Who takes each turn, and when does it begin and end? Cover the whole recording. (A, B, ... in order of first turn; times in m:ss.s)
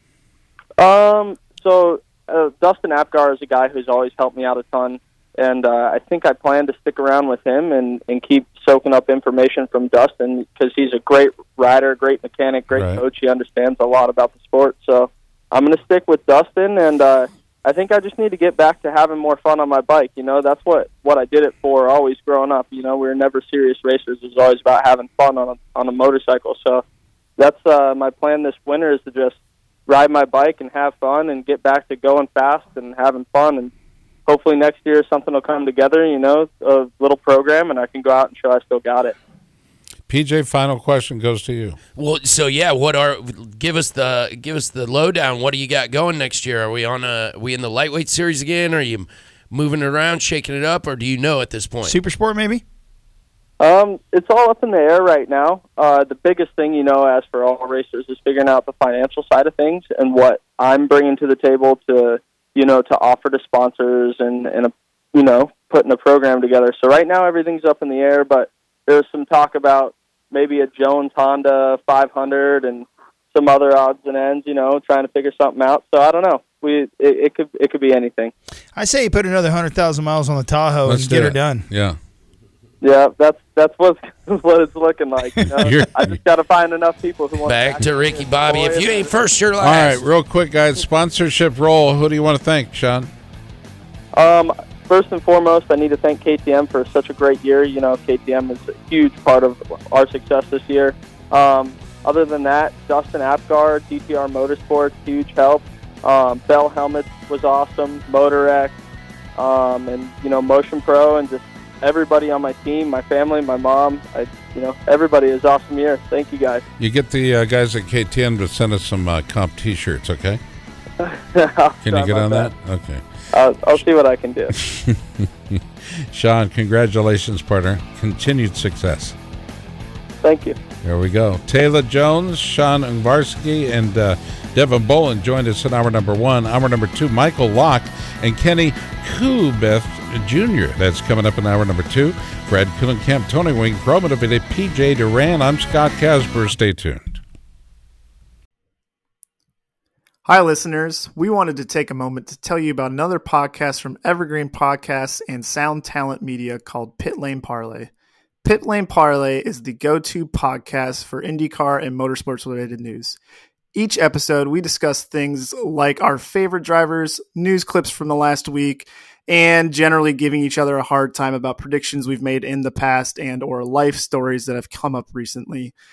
0:00.8-0:26.8 A
0:12.7-0:13.0 B
0:27.4-0:33.7 A
0:34.3-0:39.2 A
0:40.1-0:41.8 B
0:42.0-0:52.0 C
0:51.8-0:52.6 D
0:53.6-1:18.3 A
1:18.8-1:21.7 D
1:20.8-1:22.0 B
1:22.8-1:29.1 A
1:25.6-1:26.2 B
1:27.4-1:30.1 C
1:29.6-1:33.1 B
1:34.1-1:48.7 A
1:49.4-1:56.6 A
1:56.8-2:00.4 B
2:01.0-2:02.5 A
2:01.8-2:03.0 B
2:03.3-2:04.5 A
2:04.6-2:05.6 B
2:06.1-2:09.2 B
2:10.2-2:10.6 A
2:10.8-2:27.2 B
2:30.3-2:37.9 E
2:38.4-2:43.2 E
2:43.8-2:55.7 E